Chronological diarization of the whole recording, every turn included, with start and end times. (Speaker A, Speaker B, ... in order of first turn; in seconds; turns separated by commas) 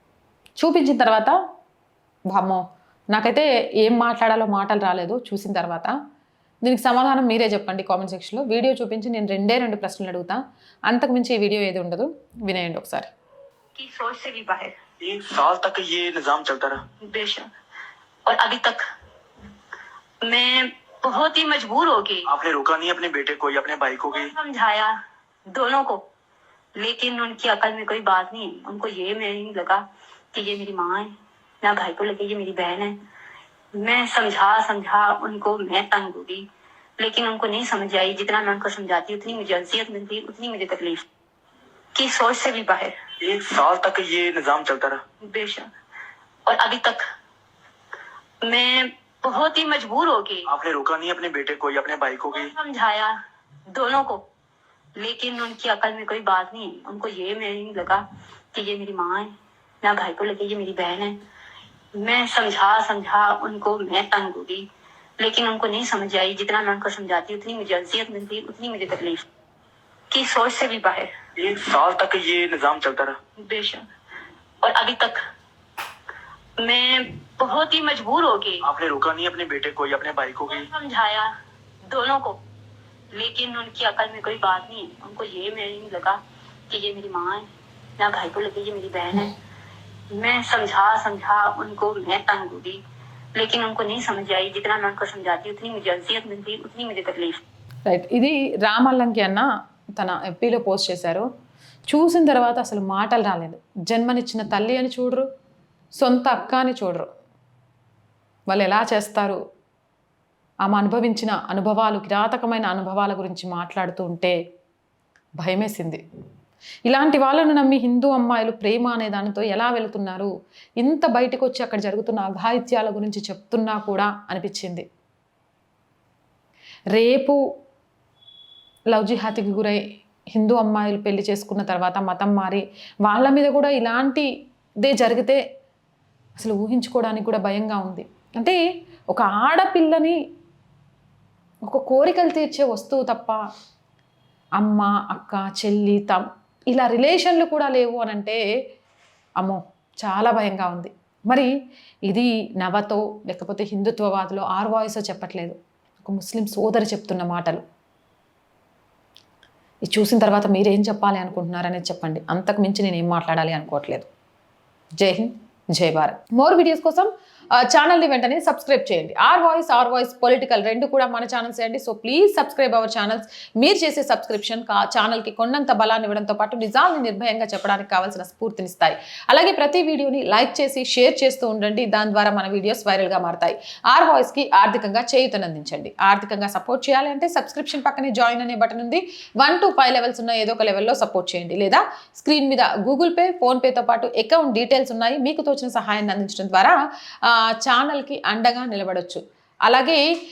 Speaker A: 0.6-1.4, Speaker A: 2.3-5.9, Speaker A: 6.6-13.1, Speaker B: 13.8-14.8, Speaker C: 15.0-16.8, Speaker B: 17.1-17.5, Speaker B: 18.2-18.8, Speaker B: 20.2-22.3, Speaker C: 22.2-24.3, Speaker B: 24.1-24.9, Speaker B: 25.5-26.0, Speaker B: 26.8-31.1, Speaker B: 31.6-33.0, Speaker B: 33.8-36.5, Speaker B: 37.0-41.0, Speaker B: 41.9-43.0, Speaker C: 43.2-45.0, Speaker B: 45.2-45.7, Speaker B: 46.5-47.0, Speaker B: 48.4-50.5, Speaker C: 50.5-52.5, Speaker B: 52.3-53.1, Speaker B: 53.7-54.2, Speaker B: 55.0-59.3, Speaker B: 59.8-61.1, Speaker B: 62.0-64.7, Speaker B: 65.2-69.2, Speaker B: 70.1-71.1, Speaker C: 71.4-73.2, Speaker B: 73.4-73.8, Speaker B: 74.6-75.2, Speaker B: 76.6-78.6, Speaker C: 78.6-80.7, Speaker B: 80.5-81.3, Speaker B: 81.9-82.4, Speaker B: 83.1-87.5, Speaker B: 88.0-89.3, Speaker B: 90.1-92.8, Speaker B: 93.3-97.4, Speaker A: 97.8-101.3, Speaker A: 101.9-105.3, Speaker A: 106.0-107.0, Speaker A: 108.5-109.4, Speaker A: 110.6-114.3, Speaker A: 115.4-116.0, Speaker A: 116.8-124.8, Speaker A: 126.9-127.4, Speaker A: 128.9-134.3, Speaker A: 134.8-135.4, Speaker A: 136.4-138.6, Speaker A: 139.1-140.2, Speaker A: 141.7-143.4, Speaker A: 144.6-148.4, Speaker A: 149.4-151.5, Speaker A: 152.1-157.6, Speaker A: 159.8-164.1, Speaker A: 165.0-200.0